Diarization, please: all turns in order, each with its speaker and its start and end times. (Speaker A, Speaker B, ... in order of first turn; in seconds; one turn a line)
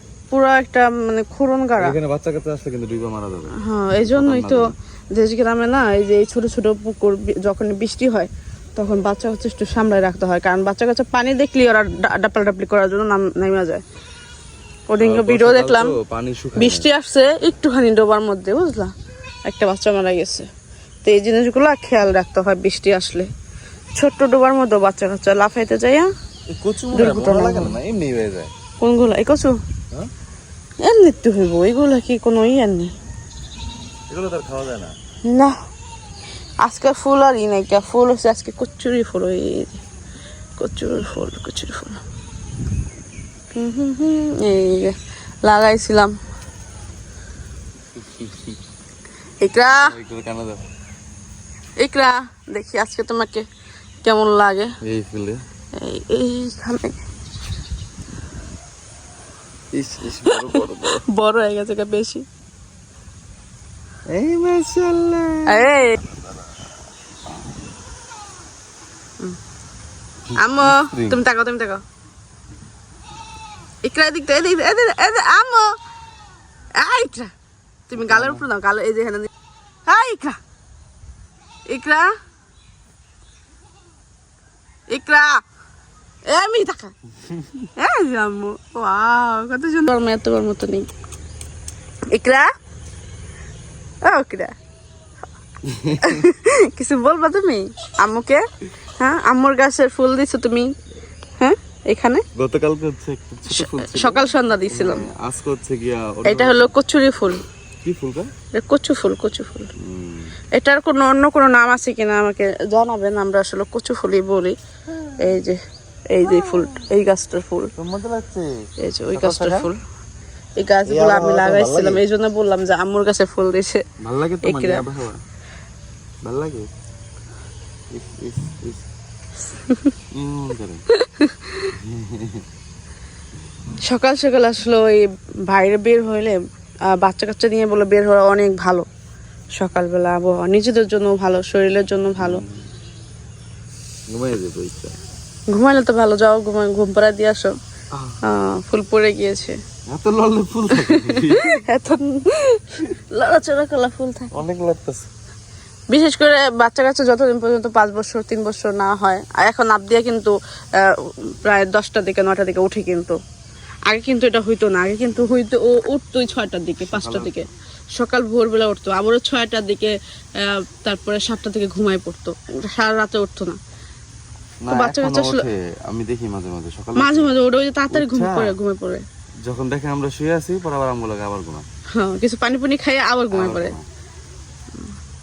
Speaker A: 0.3-2.0
Speaker B: 1.8-4.7
Speaker A: 3.6-13.8
Speaker A: 14.9-16.0
Speaker B: 15.0-16.9
Speaker A: 16.6-18.9
Speaker A: 19.5-20.5
Speaker A: 21.0-23.3
Speaker A: 24.0-26.1
Speaker B: 26.5-28.5
Speaker A: 26.9-27.8
Speaker A: 28.8-29.6
Speaker A: 30.8-32.9
Speaker B: 34.1-35.0
Speaker A: 35.3-35.5
Speaker A: 36.6-39.8
Speaker A: 40.6-42.0
Speaker A: 43.5-46.1
Speaker B: 48.0-48.6
Speaker A: 49.4-50.0
Speaker B: 49.6-50.6
Speaker A: 51.8-53.5
Speaker A: 54.0-54.7
Speaker B: 54.8-55.4
Speaker A: 55.8-57.0
Speaker B: 59.7-61.0
Speaker A: 60.3-62.2
Speaker B: 64.1-65.7
Speaker A: 65.5-66.0
Speaker A: 70.4-71.8
Speaker B: 70.5-71.2
Speaker A: 73.8-75.7
Speaker A: 76.8-77.3
Speaker A: 77.9-79.3
Speaker B: 78.0-78.5
Speaker A: 79.9-80.4
Speaker A: 81.7-82.1
Speaker A: 84.9-85.3
Speaker A: 86.3-86.9
Speaker A: 87.8-90.9
Speaker A: 92.1-92.5
Speaker A: 94.0-94.5
Speaker B: 95.7-96.2
Speaker A: 96.0-98.5
Speaker A: 99.0-100.7
Speaker A: 101.4-102.2
Speaker B: 102.4-106.8
Speaker A: 103.5-105.1
Speaker A: 106.3-107.4
Speaker B: 107.8-108.3
Speaker A: 108.5-109.7
Speaker B: 109.8-110.4
Speaker A: 110.5-114.6
Speaker A: 115.2-115.6
Speaker A: 116.1-117.7
Speaker B: 117.8-118.5
Speaker A: 118.8-119.8
Speaker B: 119.1-119.7
Speaker A: 120.6-123.8
Speaker B: 120.8-122.0
Speaker B: 124.0-125.2
Speaker A: 124.4-124.8
Speaker B: 126.2-126.7
Speaker B: 127.9-128.9
Speaker B: 130.1-130.9
Speaker A: 130.9-131.7
Speaker B: 131.7-132.4
Speaker A: 133.8-138.9
Speaker A: 139.6-142.4
Speaker B: 142.2-142.6
Speaker B: 144.1-145.0
Speaker A: 145.5-147.6
Speaker A: 148.2-149.6
Speaker B: 149.9-151.6
Speaker A: 150.7-154.3
Speaker B: 154.3-155.1
Speaker A: 155.9-163.2
Speaker A: 163.9-173.6
Speaker B: 166.9-167.4
Speaker B: 174.6-177.3
Speaker A: 174.7-175.5
Speaker A: 176.9-179.0
Speaker B: 177.9-178.5
Speaker B: 179.4-181.7
Speaker A: 181.9-183.8
Speaker B: 183.3-183.8